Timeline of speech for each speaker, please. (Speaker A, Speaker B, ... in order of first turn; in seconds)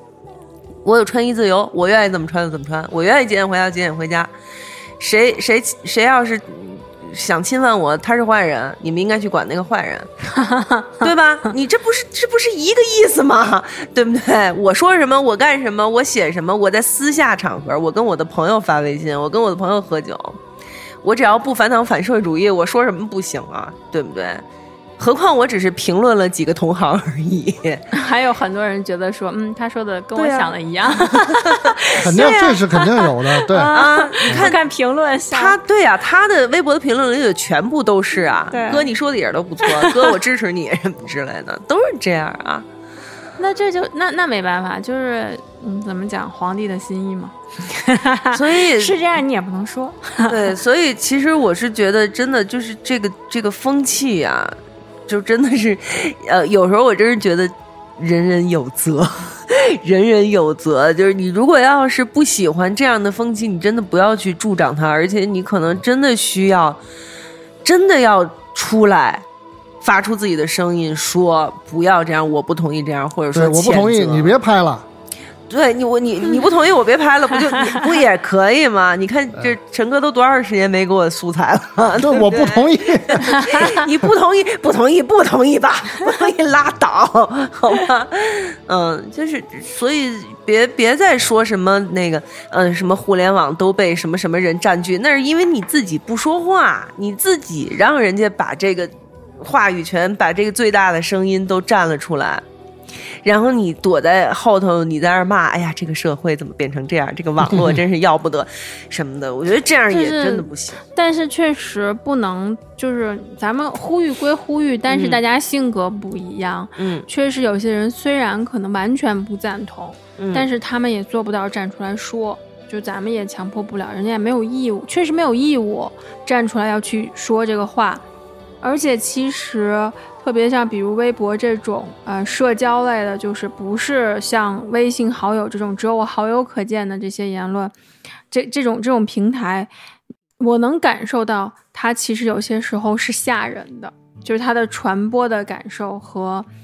Speaker A: 0.8-4.3, 5.0-10.1, 11.0-20.4, 21.0-24.4, 25.0-27.9, 30.2-32.6, 33.6-34.6, 35.3-42.7, 48.3-49.0, 50.3-66.8, 67.6-69.2, 69.8-74.4, 75.5-102.4, 103.2-110.8, 114.9-115.2, 116.8-117.1, 120.2-120.5
Speaker B: 10.3-11.1, 27.9-35.6, 38.5-38.9, 39.6-40.1, 43.4-50.5, 109.9-128.1, 128.6-137.7, 138.3-139.7, 140.4-146.5
Speaker C: 32.0-33.7, 73.3-74.9, 82.0-84.1, 107.5-107.8